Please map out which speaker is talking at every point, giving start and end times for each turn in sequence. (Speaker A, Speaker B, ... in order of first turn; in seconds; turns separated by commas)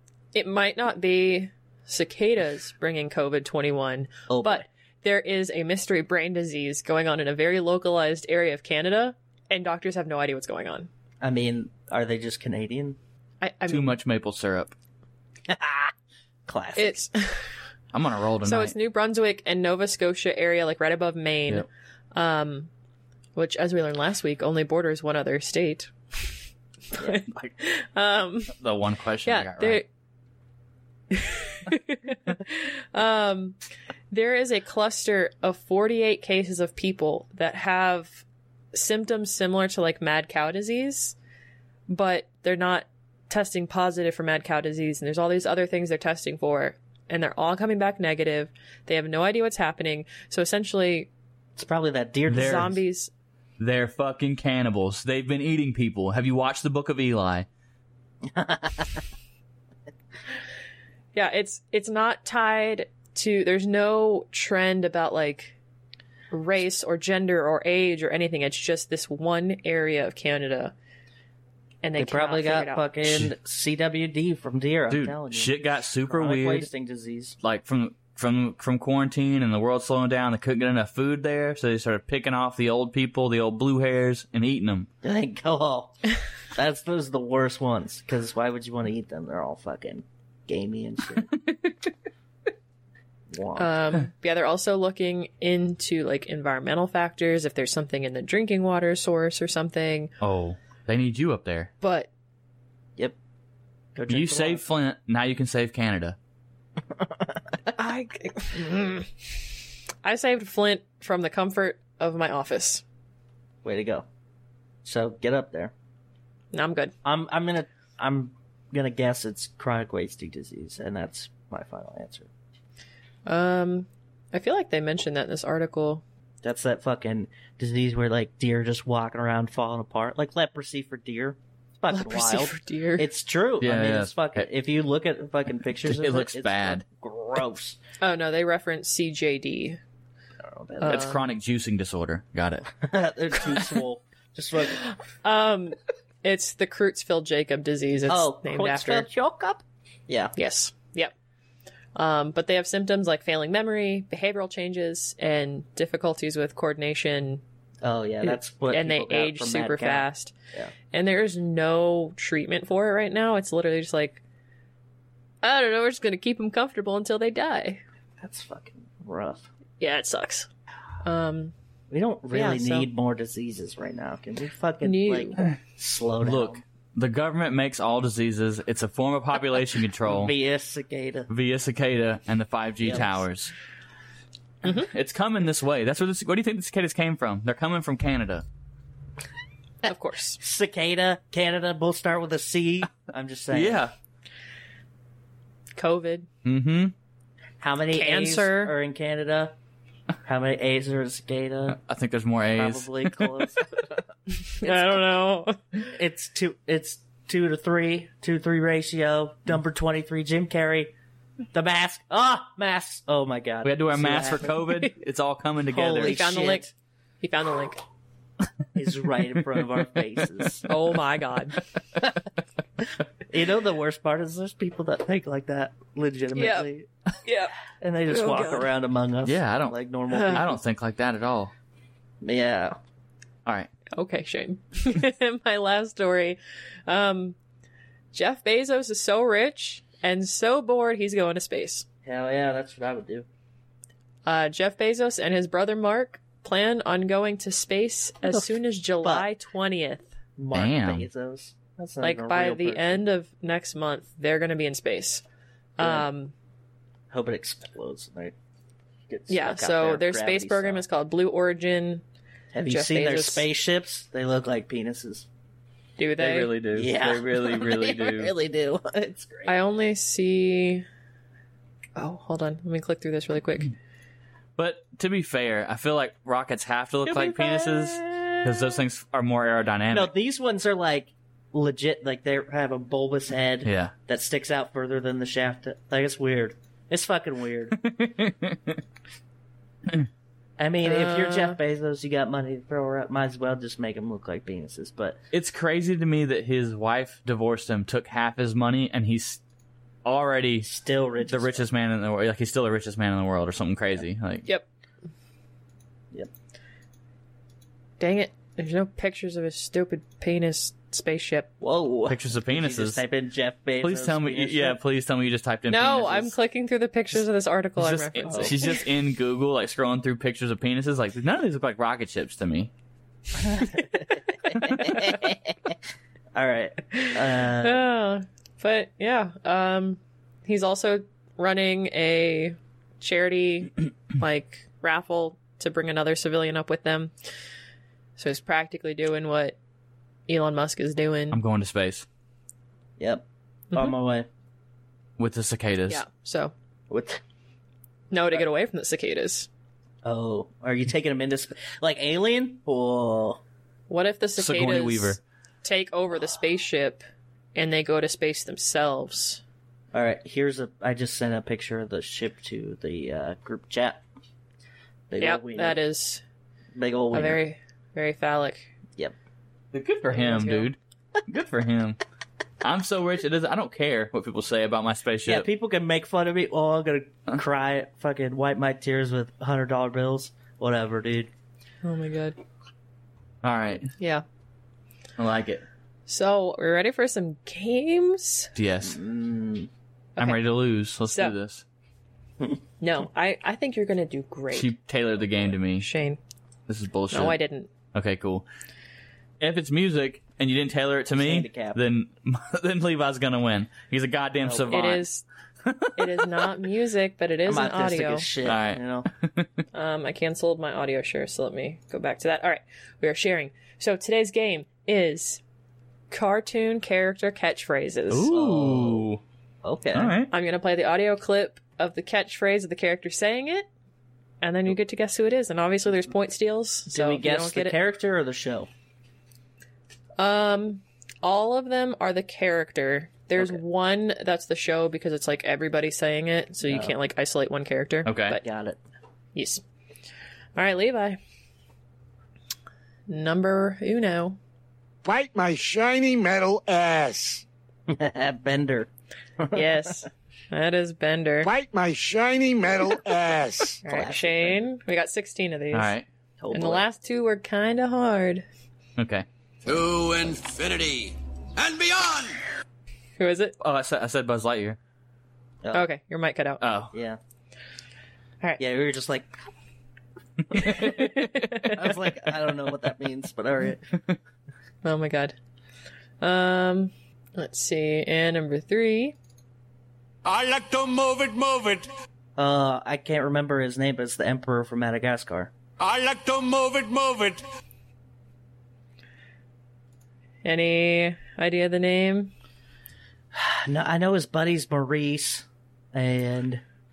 Speaker A: 0.3-10.9, Speaker B: 4.3-4.7, Speaker B: 11.2-13.0, Speaker A: 13.4-13.9, Speaker C: 13.7-14.7, Speaker B: 15.5-15.9, Speaker B: 16.5-17.0, Speaker A: 16.8-17.6, Speaker C: 17.9-18.8, Speaker A: 18.4-22.7, Speaker A: 23.4-25.9, Speaker A: 26.9-28.6, Speaker C: 28.6-29.8, Speaker A: 29.2-29.9, Speaker A: 31.1-33.6, Speaker A: 34.1-41.1, Speaker A: 41.9-51.1, Speaker B: 51.6-52.8, Speaker C: 52.3-52.7, Speaker A: 52.3-53.1, Speaker C: 53.6-57.5, Speaker B: 58.3-59.0, Speaker A: 61.1-65.6, Speaker A: 66.3-70.7, Speaker A: 71.8-73.2, Speaker B: 72.0-77.4, Speaker C: 74.9-76.7, Speaker C: 77.4-84.9, Speaker B: 85.0-86.0, Speaker B: 86.5-91.3, Speaker B: 93.3-93.8, Speaker A: 93.6-100.1, Speaker C: 100.2-101.7, Speaker A: 101.8-102.1, Speaker B: 104.0-104.6, Speaker C: 104.1-106.2, Speaker A: 107.8-109.5, Speaker A: 110.0-112.8, Speaker B: 113.6-114.1, Speaker B: 114.8-115.7, Speaker A: 116.5-116.9, Speaker B: 117.0-122.3, Speaker A: 123.3-126.0, Speaker B: 126.4-137.8, Speaker A: 131.9-133.1, Speaker C: 133.6-134.5, Speaker C: 135.8-136.8, Speaker A: 138.0-139.8, Speaker B: 140.4-141.2, Speaker A: 140.8-141.2, Speaker C: 140.9-142.7, Speaker B: 142.8-144.8, Speaker A: 144.8-149.1, Speaker B: 148.1-150.3, Speaker A: 150.4-151.1, Speaker A: 152.0-157.4, Speaker B: 157.8-160.7, Speaker A: 158.2-160.3, Speaker A: 160.9-164.2, Speaker A: 165.4-167.8, Speaker B: 168.2-169.5, Speaker A: 169.8-170.5, Speaker A: 171.0-171.5, Speaker B: 171.9-176.6, Speaker A: 172.3-172.9, Speaker A: 174.8-175.4, Speaker C: 176.2-180.3, Speaker B: 180.1-181.3, Speaker C: 181.3-183.5, Speaker B: 182.8-183.1, Speaker A: 184.6-184.9, Speaker C: 184.6-188.4, Speaker A: 189.8-190.4, Speaker B: 190.4-193.8, Speaker C: 193.5-193.9, Speaker A: 195.8-196.3, Speaker C: 196.4-196.9, Speaker B: 197.6-199.5, Speaker A: 197.9-198.8, Speaker B: 200.2-201.8, Speaker C: 201.7-203.4, Speaker B: 202.5-203.9, Speaker A: 204.3-205.8, Speaker B: 205.9-210.9, Speaker B: 211.5-214.6, Speaker C: 213.6-216.2, Speaker B: 215.7-216.7, Speaker A: 216.0-216.7, Speaker A: 217.2-217.8, Speaker B: 218.8-220.7, Speaker A: 220.7-221.6, Speaker B: 223.3-226.9, Speaker A: 226.4-226.7, Speaker A: 227.2-227.5, Speaker B: 227.8-230.6, Speaker A: 228.1-228.7, Speaker C: 229.2-229.8, Speaker A: 230.1-230.4, Speaker C: 230.3-231.5, Speaker B: 232.2-232.8, Speaker A: 233.9-237.4, Speaker A: 238.1-241.8, Speaker B: 242.1-243.3, Speaker A: 244.3-250.1, Speaker B: 248.3-249.3, Speaker B: 250.4-253.0, Speaker C: 250.5-251.1, Speaker A: 252.0-255.2, Speaker A: 255.8-256.3, Speaker B: 255.8-256.1, Speaker B: 257.1-258.4, Speaker B: 259.1-260.8, Speaker A: 259.3-262.0, Speaker B: 262.5-265.3, Speaker A: 262.7-263.5, Speaker A: 266.0-266.5, Speaker C: 266.2-268.3, Speaker B: 266.7-269.6, Speaker A: 269.5-270.9, Speaker A: 272.0-273.7, Speaker C: 274.6-280.1, Speaker B: 277.1-278.5, Speaker B: 279.9-287.8, Speaker C: 283.6-283.9, Speaker C: 287.8-288.8, Speaker B: 290.6-295.2, Speaker A: 290.8-291.6, Speaker C: 295.3-299.4, Speaker C: 300.1-300.7, Speaker B: 300.6-301.7, Speaker C: 301.2-304.5, Speaker A: 308.0-311.5, Speaker B: 311.6-314.8, Speaker C: 312.1-313.0, Speaker C: 313.8-316.3, Speaker A: 315.7-318.8, Speaker C: 317.8-322.7, Speaker B: 318.3-318.5, Speaker B: 323.4-325.8, Speaker B: 326.4-327.9, Speaker A: 326.9-337.1, Speaker A: 338.2-339.6, Speaker A: 340.3-341.4, Speaker C: 341.3-342.1, Speaker B: 343.0-344.3, Speaker C: 345.2-346.0, Speaker A: 345.9-346.5, Speaker B: 346.9-347.2, Speaker A: 348.1-349.5, Speaker B: 350.0-353.4, Speaker A: 353.9-357.0, Speaker C: 354.4-355.2, Speaker A: 357.6-359.4, Speaker B: 359.9-364.0, Speaker B: 365.1-365.8, Speaker A: 365.2-366.2, Speaker B: 366.8-367.4, Speaker A: 367.1-368.7, Speaker C: 369.7-372.0, Speaker A: 370.1-370.7, Speaker C: 372.6-375.5, Speaker B: 375.3-381.3, Speaker A: 381.8-382.4, Speaker C: 383.4-383.9, Speaker A: 384.0-384.2, Speaker C: 385.2-385.6, Speaker A: 386.1-388.5, Speaker C: 388.6-389.0, Speaker B: 388.8-389.7, Speaker A: 390.2-390.4, Speaker C: 390.2-391.6, Speaker A: 391.1-391.4, Speaker A: 392.8-394.7, Speaker C: 394.5-395.9, Speaker A: 395.8-396.2, Speaker C: 396.7-397.4, Speaker A: 397.1-397.7, Speaker C: 397.9-398.5, Speaker C: 399.4-405.1, Speaker B: 401.1-401.8, Speaker B: 404.4-404.8, Speaker A: 404.7-405.2, Speaker C: 405.6-406.5, Speaker A: 406.0-408.3, Speaker B: 407.5-409.1, Speaker C: 408.4-409.6, Speaker A: 409.7-415.4, Speaker A: 416.1-418.3, Speaker C: 418.1-419.2, Speaker B: 418.3-419.1, Speaker B: 419.6-420.1, Speaker C: 419.9-420.3, Speaker A: 420.3-423.7, Speaker A: 424.4-427.8, Speaker B: 426.9-428.7, Speaker A: 430.2-438.4, Speaker B: 436.6-436.9, Speaker C: 438.1-438.4, Speaker B: 438.4-438.8, Speaker A: 439.4-439.6, Speaker A: 440.6-441.2, Speaker A: 443.1-444.4, Speaker D: 445.0-447.4, Speaker B: 447.9-448.9, Speaker B: 449.4-450.1, Speaker A: 449.5-451.5, Speaker D: 451.4-453.8, Speaker B: 453.8-454.6, Speaker A: 453.9-455.9, Speaker C: 455.7-456.1, Speaker B: 456.4-456.9, Speaker A: 456.5-458.4, Speaker C: 459.0-459.3, Speaker E: 459.6-462.4, Speaker A: 463.2-463.6, Speaker C: 463.6-464.8, Speaker A: 465.7-466.6, Speaker C: 466.6-466.9, Speaker B: 466.9-467.2, Speaker B: 468.6-469.3, Speaker C: 470.5-471.5, Speaker B: 470.6-470.9, Speaker A: 470.6-471.8, Speaker B: 471.7-474.0, Speaker A: 474.8-475.4, Speaker A: 476.2-479.1, Speaker E: 480.2-481.9, Speaker B: 482.4-485.5, Speaker E: 485.8-487.4, Speaker A: 490.4-492.3, Speaker B: 493.4-496.6